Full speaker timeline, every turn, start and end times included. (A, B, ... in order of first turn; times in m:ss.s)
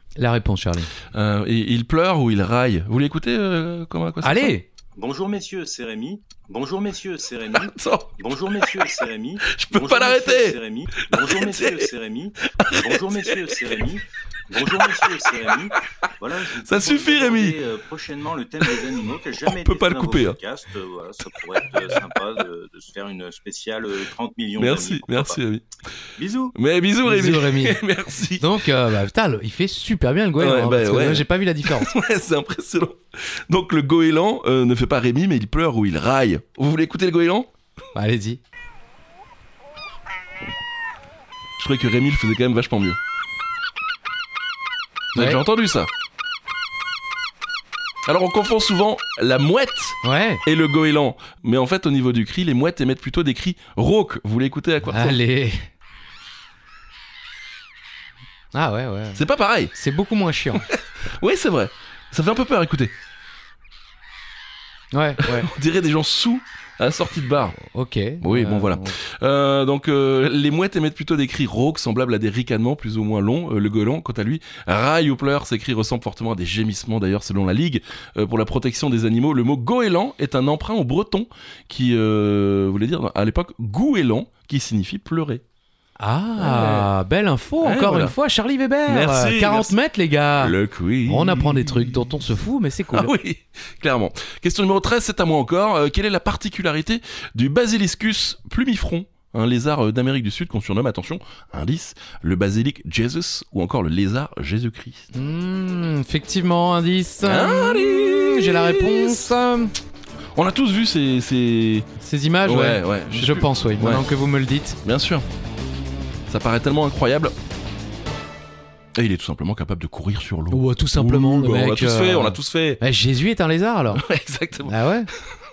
0:00.2-0:00.9 A
0:01.1-0:04.6 B
0:04.2-0:04.6 A
0:05.0-0:25.4 C
0:07.6-0:08.1 B
0:09.4-0:11.9 B
0:12.5-0:13.8 B
0:16.6-0:17.6 B
0:19.4-0:20.4 B
0:24.6-0:25.6 B
0:26.2-0:26.5 C
0:26.5-0:28.5 B
0:27.0-0:27.8 A
0:28.4-0:31.9 A
0:30.4-0:37.5 B
0:37.9-0:38.4 A
0:41.6-0:43.0 B
0:45.1-0:45.4 A
0:45.1-0:45.9 B
0:48.0-0:55.2 B
0:50.0-0:50.4 A
0:54.9-0:55.6 A
0:58.5-0:59.2 A
0:59.1-0:59.7 B
0:59.7-1:00.6 A
1:00.6-1:02.9 B
1:04.9-1:05.5 A
1:05.2-1:07.6 B
1:07.6-1:08.9 A
1:08.2-1:25.4 B
1:26.0-1:33.1 A
1:26.4-1:26.9 B
1:27.6-1:28.1 B
1:28.9-1:29.7 B
1:30.4-1:31.9 B
1:32.9-1:45.1 B
1:45.1-1:49.7 A
1:47.2-1:49.3 B
1:50.4-1:51.9 B
1:52.0-1:54.8 A
1:52.4-1:54.0 B
1:54.8-1:55.2 B
1:56.3-1:57.3 B
1:59.0-2:02.8 B
2:00.5-2:04.0 A
2:03.9-2:04.8 B
2:04.6-2:05.1 A